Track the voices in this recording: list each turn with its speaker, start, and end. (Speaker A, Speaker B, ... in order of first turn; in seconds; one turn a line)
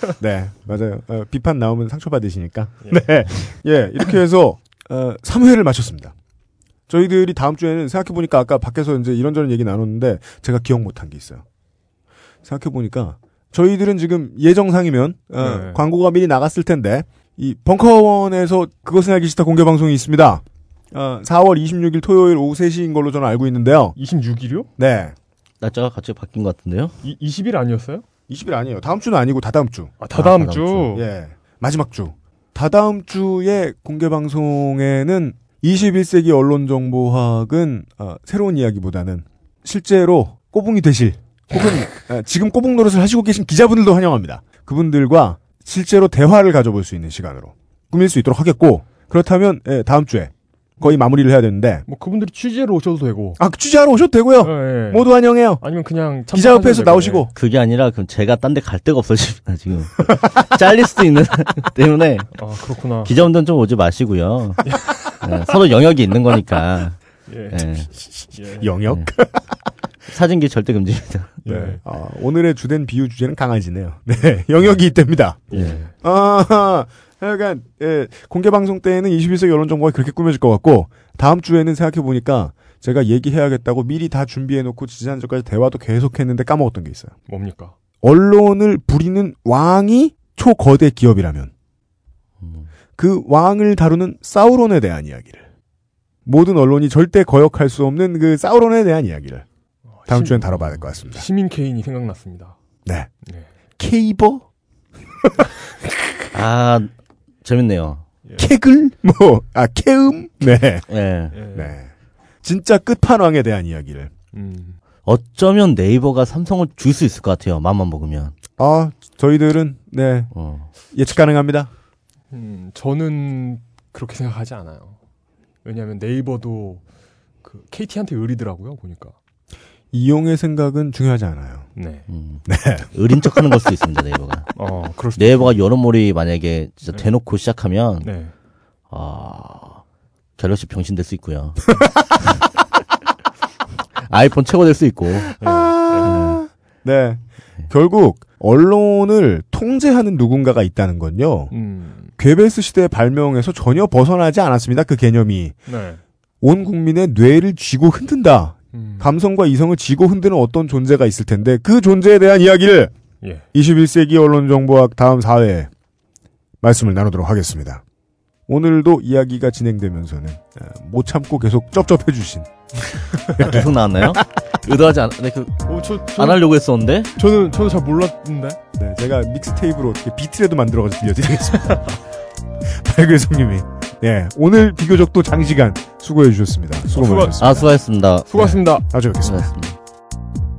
Speaker A: 0.2-6.2
Speaker A: 6.9-11.4
Speaker A: 12.4-24.0
Speaker B: 15.4-15.8
Speaker B: 24.0-24.7
Speaker A: 24.8-25.1
Speaker C: 25.6-27.0
Speaker B: 27.0-28.1
Speaker A: 28.3-29.9
Speaker B: 30.0-31.1
Speaker C: 30.1-30.9
Speaker A: 30.9-51.9
Speaker B: 51.9-53.4
Speaker A: 53.4-55.6
Speaker B: 54.4-57.3
Speaker A: 56.3-57.3
Speaker C: 57.3-62.5
Speaker B: 62.4-63.1
Speaker C: 63.0-67.9
Speaker B: 64.7-65.3
Speaker B: 67.3-67.7
Speaker A: 68.3-69.5
Speaker B: 68.3-68.7
Speaker C: 70.1-71.4
Speaker B: 71.5-71.8
Speaker A: 71.5-87.2
Speaker B: 75.5-75.9
Speaker C: 75.5-75.8
Speaker B: 87.3-87.7
Speaker A: 88.0-91.5
Speaker C: 92.4-92.7
Speaker A: 93.0-95.5
Speaker A: 96.3-99.5
Speaker B: 99.9-102.6
Speaker A: 100.1-101.2
Speaker B: 103.2-103.5
Speaker A: 103.8-104.5
Speaker C: 106.3-106.9
Speaker C: 107.4-108.0
Speaker A: 108.4-110.9
Speaker C: 110.9-111.4
Speaker B: 111.3-111.7
Speaker A: 111.5-111.9
Speaker A: 112.4-114.1
Speaker B: 114.3-114.8
Speaker C: 115.1-118.3
Speaker A: 118.6-120.3
Speaker C: 120.3-120.7
Speaker A: 120.9-121.7
Speaker B: 122.3-125.0
Speaker B: 125.6-126.8
Speaker B: 127.4-129.2
Speaker A: 129.9-131.7
Speaker B: 131.8-132.1
Speaker C: 132.1-134.5
Speaker A: 132.5-132.9
Speaker B: 134.6-135.5
Speaker C: 135.2-138.1
Speaker B: 138.0-138.3
Speaker C: 138.9-139.8
Speaker C: 140.4-142.4
Speaker C: 144.1-145.3
Speaker A: 145.3-151.5
Speaker B: 145.4-146.4
Speaker C: 146.1-146.4
Speaker B: 151.5-152.1
Speaker A: 152.2-155.6
Speaker B: 155.7-156.0
Speaker A: 156.4-162.9
Speaker B: 158.7-159.1
Speaker A: 163.5-165.7
Speaker A: 166.6-167.8
Speaker A: 168.5-174.2
Speaker C: 173.4-177.1
Speaker B: 175.7-176.5
Speaker B: 177.2-178.6
Speaker A: 178.8-182.0
Speaker A: 182.6-187.7
Speaker B: 186.9-187.7
Speaker C: 187.4-188.7
Speaker B: 188.3-188.9
Speaker A: 188.9-189.5
Speaker C: 189.2-189.8